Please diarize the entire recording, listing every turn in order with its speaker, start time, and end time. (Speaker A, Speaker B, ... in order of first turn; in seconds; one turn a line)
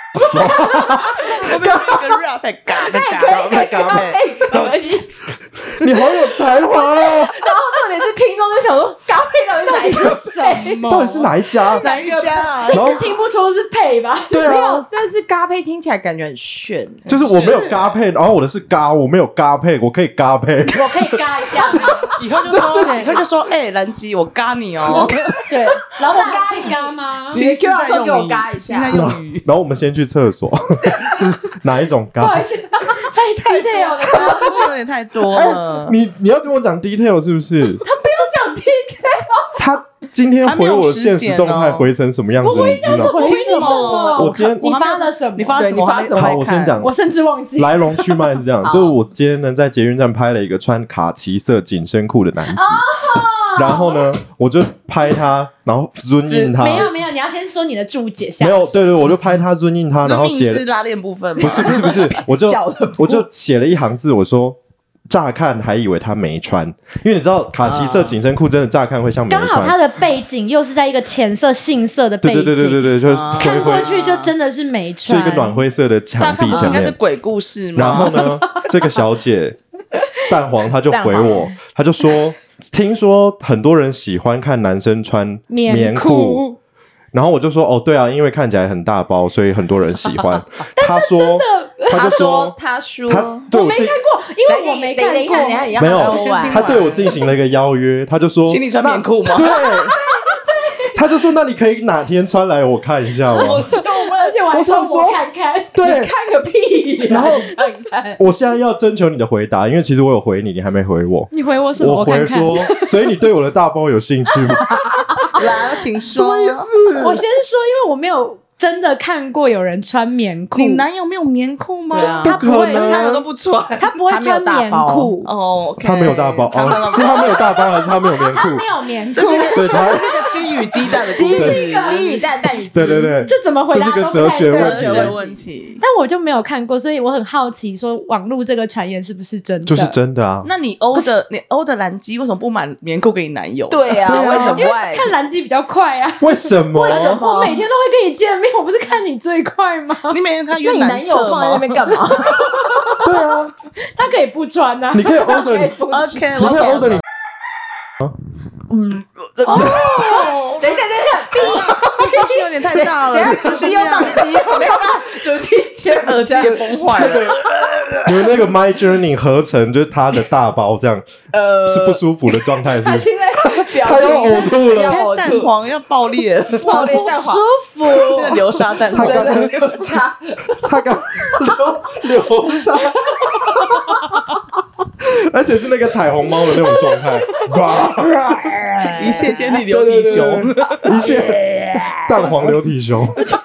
Speaker A: 0.2-2.0
Speaker B: 1.1-4.2
Speaker C: 2.7-10.9
Speaker A: 3.2-4.8
Speaker A: 5.8-7.3
Speaker D: 9.7-11.3
Speaker A: 10.9-11.9
Speaker C: 11.7-12.7
Speaker B: 11.8-12.8
Speaker D: 12.6-14.4
Speaker A: 12.7-13.1
Speaker A: 14.3-14.9
Speaker C: 14.3-17.1
Speaker A: 17.1-21.1
Speaker B: 17.1-17.8
Speaker D: 20.7-22.1
Speaker A: 21.7-23.0
Speaker B: 22.2-25.3
Speaker D: 22.7-23.2
Speaker D: 24.9-27.4
Speaker A: 24.9-25.4
Speaker C: 26.0-29.1
Speaker B: 27.3-29.5
Speaker A: 28.9-32.5
Speaker C: 30.8-31.3
Speaker D: 32.2-34.7
Speaker C: 33.8-34.5
Speaker B: 34.0-36.0
Speaker A: 35.3-37.8
Speaker C: 37.8-39.6
Speaker A: 39.6-43.3
Speaker B: 40.4-41.9
Speaker D: 42.4-45.7
Speaker C: 42.9-44.1
Speaker B: 43.1-46.8
Speaker A: 44.1-44.6
Speaker C: 45.5-46.5
Speaker A: 46.1-46.9
Speaker D: 46.8-48.9
Speaker A: 47.6-52.9
Speaker D: 52.5-54.0
Speaker A: 53.5-56.9
Speaker B: 56.3-56.9
Speaker D: 56.6-58.8
Speaker A: 58.4-60.6
Speaker B: 60.0-62.1
Speaker A: 61.4-64.6
Speaker C: 61.4-63.3
Speaker A: 65.1-69.8
Speaker C: 67.6-68.2
Speaker D: 69.3-75.6
Speaker A: 72.2-73.9
Speaker C: 73.1-74.3
Speaker A: 75.0-77.0
Speaker B: 76.2-78.3
Speaker C: 76.5-76.8
Speaker A: 77.8-79.6
Speaker A: 80.3-86.5
Speaker C: 80.9-81.5
Speaker D: 85.5-86.6
Speaker A: 87.1-94.0
Speaker D: 90.7-92.2
Speaker C: 91.9-93.5
Speaker D: 93.5-95.8
Speaker C: 94.4-97.0
Speaker A: 95.8-98.7
Speaker B: 95.8-97.2
Speaker B: 98.5-99.5
Speaker A: 99.3-100.0
Speaker D: 99.5-101.0
Speaker A: 101.0-103.7
Speaker B: 103.3-104.4
Speaker D: 103.3-105.8
Speaker A: 104.5-105.2
Speaker A: 105.7-106.1
Speaker C: 105.8-108.2
Speaker A: 107.1-107.5
Speaker A: 108.2-114.8
Speaker D: 111.3-112.9
Speaker D: 114.6-115.3
Speaker B: 115.4-116.7
Speaker A: 116.1-117.2
Speaker D: 117.0-120.9
Speaker B: 120.5-123.9
Speaker C: 121.9-122.4
Speaker D: 122.0-123.2
Speaker A: 122.0-123.3
Speaker D: 123.8-125.3
Speaker C: 124.1-125.2
Speaker B: 125.2-127.4
Speaker A: 125.8-128.7
Speaker D: 126.6-127.5
Speaker D: 128.3-132.0
Speaker B: 129.1-132.3
Speaker A: 129.3-130.1
Speaker C: 130.9-133.2
Speaker A: 131.3-131.6
Speaker A: 132.7-135.2
Speaker D: 132.9-135.1
Speaker C: 134.4-135.4
Speaker B: 134.5-135.8
Speaker D: 135.8-140.0
Speaker A: 139.7-140.5
Speaker B: 140.4-144.3
Speaker C: 143.7-145.1
Speaker A: 144.1-144.7
Speaker D: 144.2-150.2
Speaker A: 146.2-147.3
Speaker C: 146.9-147.7
Speaker B: 150.1-151.9
Speaker C: 150.6-152.9
Speaker D: 152.3-153.1
Speaker A: 153.0-153.5
Speaker D: 153.9-155.4
Speaker A: 154.9-155.8
Speaker C: 155.1-156.8
Speaker B: 155.9-157.0
Speaker A: 156.4-157.0
Speaker B: 158.8-160.3
Speaker D: 159.4-160.6
Speaker C: 159.5-167.2
Speaker A: 159.6-159.8
Speaker B: 161.4-165.1
Speaker B: 165.8-168.4
Speaker A: 166.9-167.4
Speaker A: 168.0-171.1
Speaker C: 171.3-175.6
Speaker A: 171.7-175.1
Speaker B: 174.0-176.9
Speaker C: 176.5-180.7
Speaker D: 176.6-178.3
Speaker B: 178.1-179.7
Speaker A: 178.9-179.5
Speaker A: 180.6-184.2
Speaker A: 185.1-193.2
Speaker C: 188.8-189.5
Speaker B: 189.0-192.5